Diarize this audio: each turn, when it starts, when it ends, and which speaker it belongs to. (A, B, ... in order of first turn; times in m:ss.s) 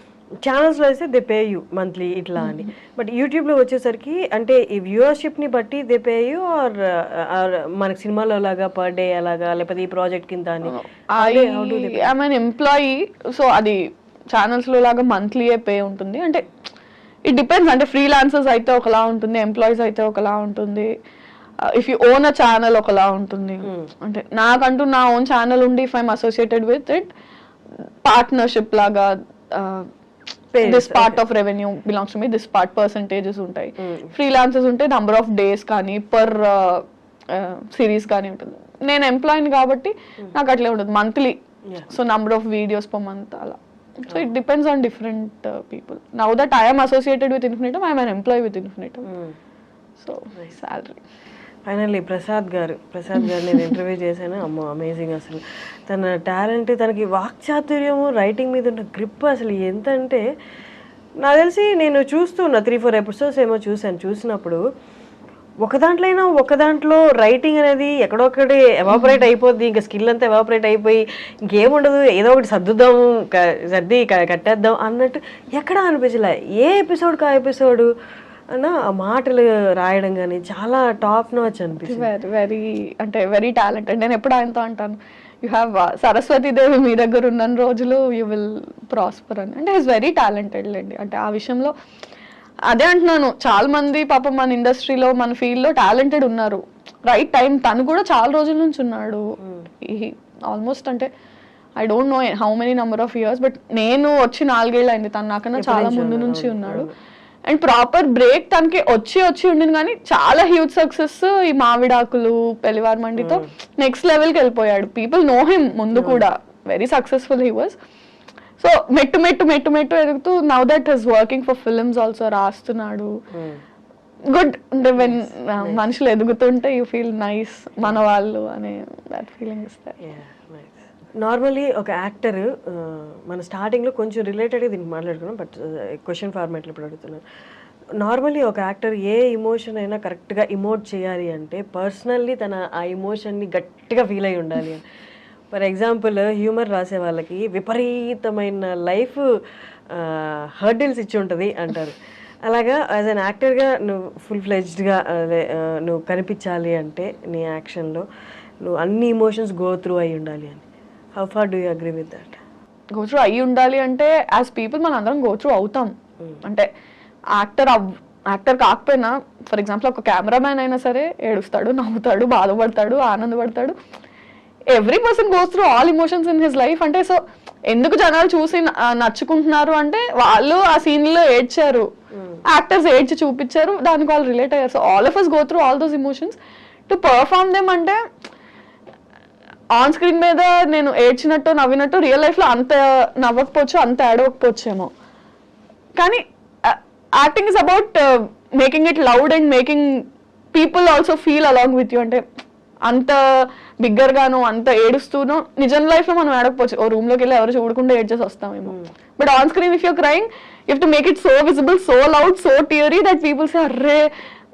0:00.4-0:12.1 A
0:02.4-0:02.6 B
0:10.7-0:13.8 B
0:14.3-0:16.4 B
0:17.3-0:20.9 B
0:21.6-0:27.1 B
0:23.6-0:23.9 A
0:28.0-0:29.9 B
0:30.5-0:31.2 A
0:30.6-0:41.4 B
0:33.8-0:34.1 A
0:41.9-0:49.1 B
0:49.1-0:49.3 A
0:50.0-0:51.0 B
0:51.7-1:00.2 A
0:53.5-0:53.8 B
1:01.2-1:04.6 A
1:05.6-1:17.9 A
1:08.9-1:09.2 B
1:18.5-1:22.1 A
1:21.8-1:31.7 B
1:32.7-1:39.2 B
1:39.8-1:41.1 B
1:41.8-1:46.9 B
1:45.6-1:46.9 A
1:47.5-1:57.8 B
1:53.2-1:53.5 A
1:55.9-1:56.2 A
1:58.6-2:03.1 B
2:03.3-2:03.6 A
2:04.3-2:10.0 B
2:05.0-2:05.8 A
2:10.0-2:17.2 A
2:18.0-2:24.8 A
2:25.5-2:29.2 A
2:29.9-2:38.0 A
2:38.6-2:40.6 A
2:41.2-2:42.4 A
2:42.9-2:46.7 B
2:47.4-2:53.8 B
2:54.7-3:01.9 B
3:02.1-3:02.4 A
3:02.5-3:06.4 B
3:06.9-3:08.0 B
3:09.8-3:14.9 B
3:16.0-3:22.2 B
3:22.9-3:34.1 B